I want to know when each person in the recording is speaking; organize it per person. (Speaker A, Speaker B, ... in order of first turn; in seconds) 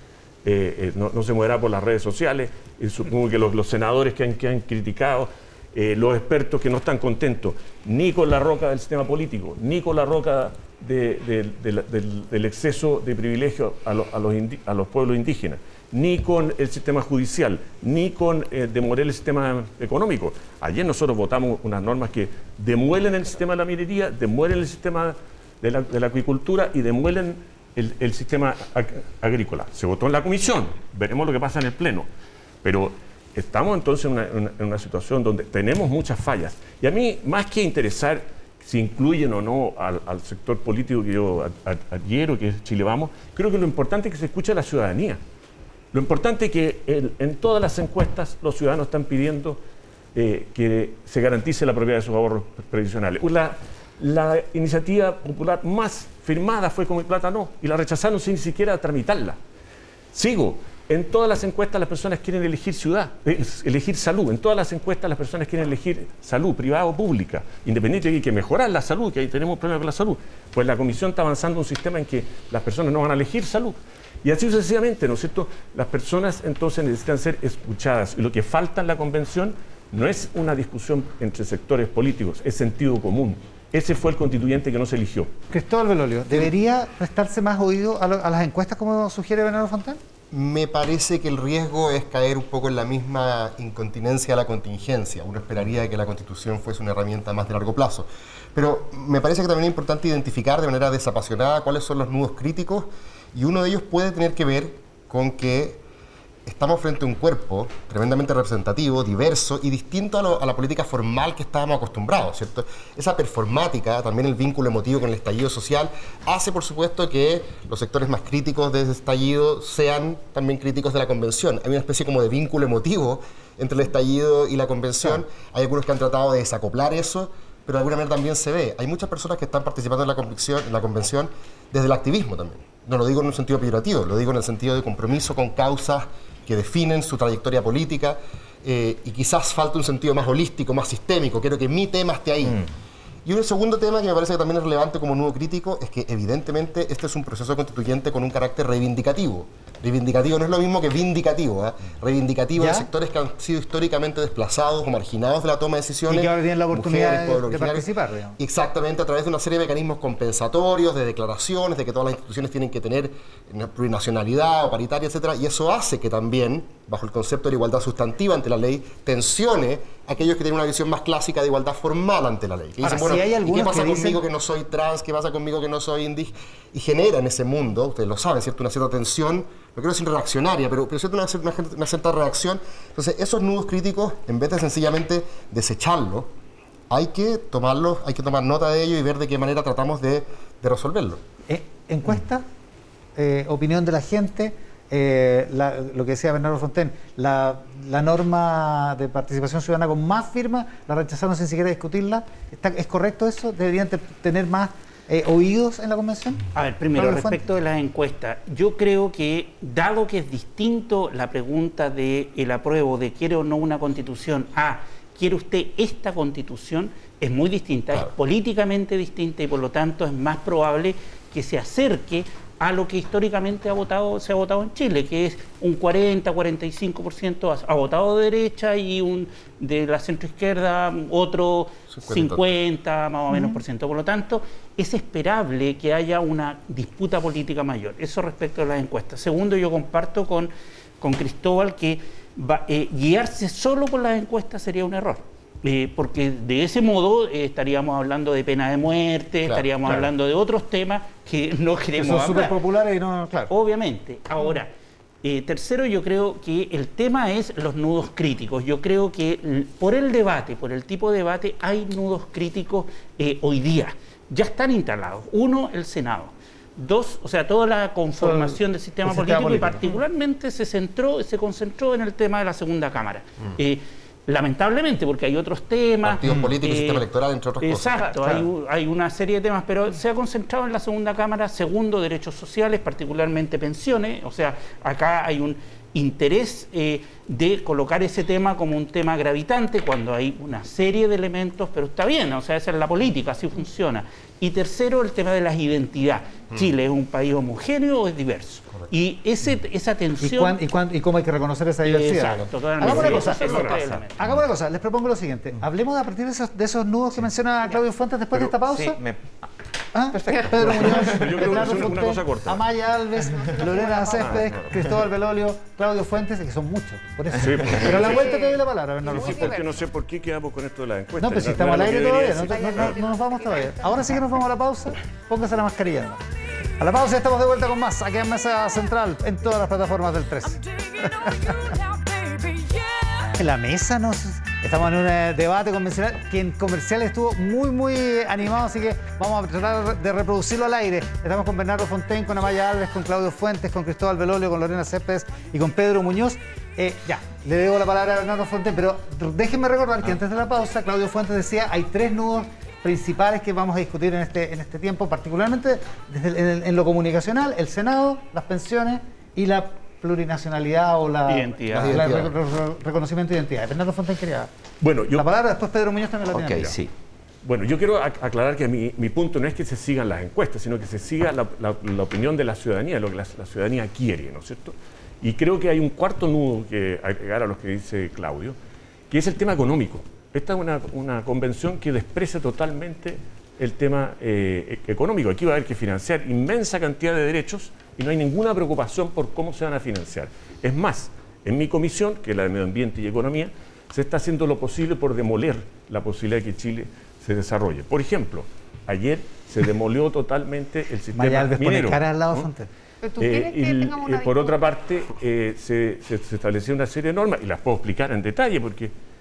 Speaker A: 0.4-32.1, 32.6-45.2, 45.9-49.6, 50.1-59.4, 60.1-85.3, 302.8-303.8, 310.6-312.6, 314.1-314.7, 317.4-318.3, 319.1-323.0, 364.8-365.2, 367.4-378.6, 379.1-402.5, 403.2-408.9
Speaker B: 85.5-90.0, 152.6-152.9, 156.1-158.3, 172.8-174.2, 191.5-192.4, 193.2-206.4, 206.9-207.4, 252.0-253.5, 268.2-269.9, 300.2-309.0, 309.9-319.6, 321.2-326.2, 326.8-332.5, 333.2-364.5, 365.1-366.8, 401.1-402.7
Speaker C: 90.3-105.8, 106.5-142.6, 143.2-186.3, 186.9-191.2, 231.9-232.4, 276.0-278.0, 361.7-362.3
Speaker D: 206.5-252.6, 253.5-254.7, 255.2-277.0, 277.6-300.6, 301.8-304.1, 361.3-362.1
Speaker E: 303.5-304.0, 308.3-309.4, 310.1-311.9, 366.3-366.9
Speaker F: 313.2-314.4, 317.9-319.8, 322.3-324.1, 403.0-404.6